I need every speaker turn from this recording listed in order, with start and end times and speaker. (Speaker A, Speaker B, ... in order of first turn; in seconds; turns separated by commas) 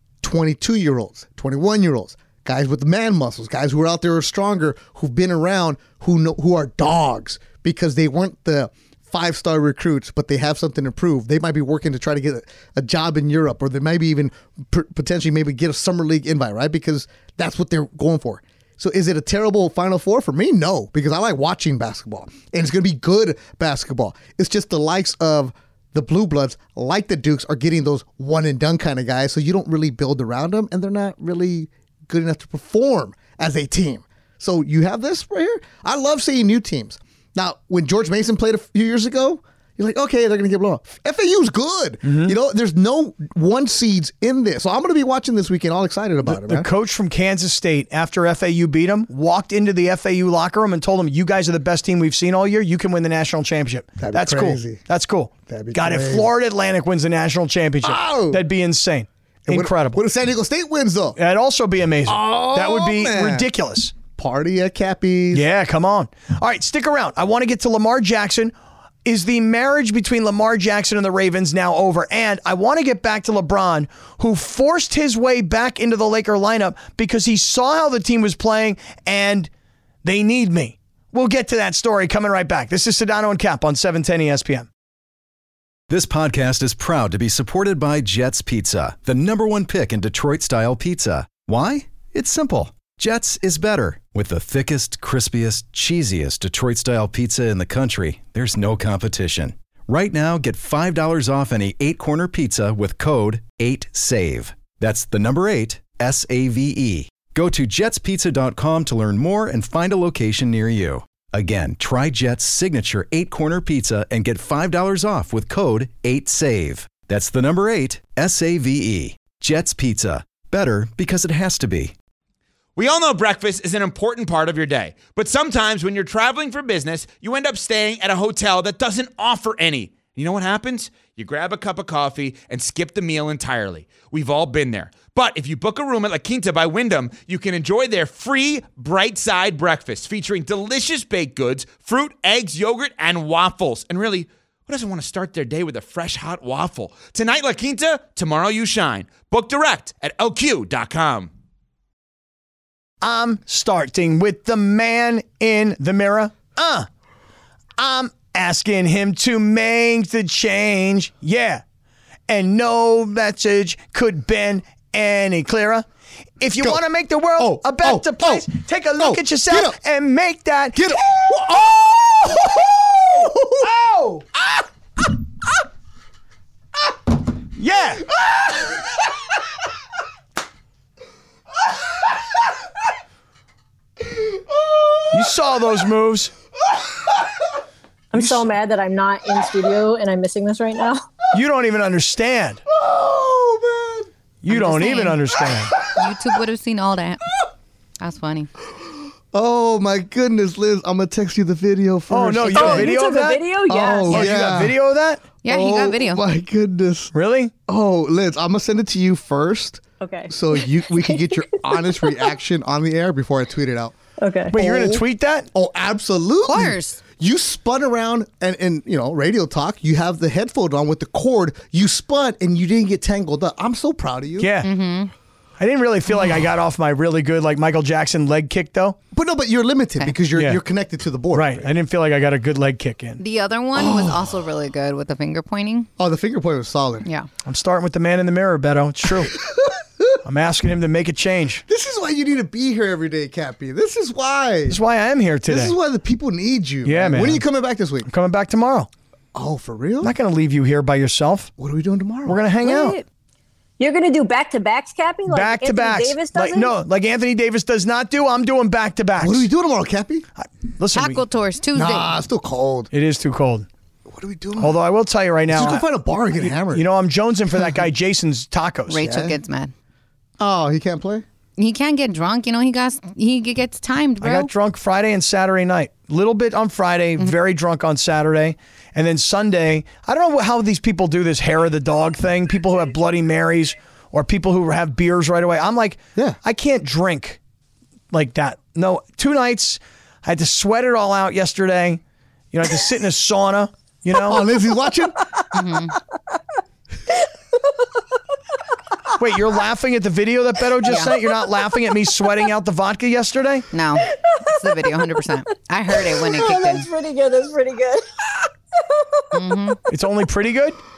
Speaker A: 0.2-46.7, Speaker B: 42.0-42.3, Speaker B: 46.2-60.0, Speaker A: 54.0-54.8, Speaker A: 55.5-56.3, Speaker A: 57.8-58.4, Speaker A: 59.5-61.2, Speaker B: 61.1-63.9, Speaker A: 62.1-63.5, Speaker A: 64.2-65.5, Speaker B: 65.3-68.5, Speaker B: 69.0-79.5, Speaker B: 80.0-84.7, Speaker C: 85.9-121.9, Speaker D: 122.8-151.3, Speaker B: 153.0-156.9, Speaker B: 157.8-161.6, Speaker B: 162.3-165.8, Speaker B: 166.4-171.3, Speaker A: 167.4-169.8, Speaker A: 170.7-173.7, Speaker B: 173.6-174.2, Speaker B: 177.6-178.1, Speaker A: 184.2-185.2, Speaker B: 185.1-186.3, Speaker E: 188.1-191.0, Speaker B: 191.3-192.6, Speaker A: 192.7-194.1, Speaker B: 194.4-195.7, Speaker F: 194.5-195.2, Speaker F: 195.8-197.4, Speaker F: 198.0-198.5, Speaker A: 198.8-202.9, Speaker B: 202.1-203.4, Speaker E: 202.5-204.3, Speaker A: 203.7-204.8, Speaker B: 204.1-205.2, Speaker F: 205.4-206.2, Speaker A: 205.4-207.1, Speaker B: 207.1-207.5, Speaker A: 207.7-213.9, Speaker E: 210.0-212.3, Speaker E: 214.2-214.5, Speaker A: 214.5-224.5, Speaker B: 214.5-215.5, Speaker F: 216.5-217.0, Speaker B: 224.4-224.7, Speaker F: 224.6-225.1, Speaker B: 225.6-229.0, Speaker A: 229.1-231.7, Speaker B: 230.3-230.6, Speaker B: 231.3-233.2, Speaker F: 233.2-235.9, Speaker A: 233.7-234.3, Speaker A: 236.0-237.1, Speaker B: 237.4-239.3, Speaker A: 239.2-240.2, Speaker B: 240.2-241.6, Speaker A: 241.7-244.8, Speaker B: 244.7-245.7, Speaker A: 245.5-248.1, Speaker B: 246.8-247.4, Speaker B: 248.0-248.9, Speaker A: 249.3-250.1, Speaker B: 250.0-251.5, Speaker A: 251.6-252.4, Speaker B: 252.2-253.0, Speaker E: 253.8-256.8, Speaker B: 255.3-259.5, Speaker A: 259.2-260.2, Speaker B: 260.4-261.2, Speaker F: 260.9-262.1, Speaker A: 261.7-262.9, Speaker B: 262.9-263.7, Speaker A: 264.1-264.8, Speaker B: 264.6-265.8, Speaker A: 265.5-266.8, Speaker B: 266.4-269.0, Speaker F: 268.9-269.7, Speaker A: 269.0-269.4, Speaker A: 270.4-271.2, Speaker F: 271.6-274.5, Speaker B: 274.2-287.4, Speaker B: 288.1-292.0, Speaker B: 292.5-294.4, Speaker A: 294.1-295.3, Speaker F: 295.5-296.0, Speaker B: 299.2-303.7, Speaker F: 300.8-301.1, Speaker F: 303.7-306.9, Speaker E: 304.1-305.2, Speaker E: 305.9-309.8, Speaker F: 309.3-309.8, Speaker B: 309.9-310.8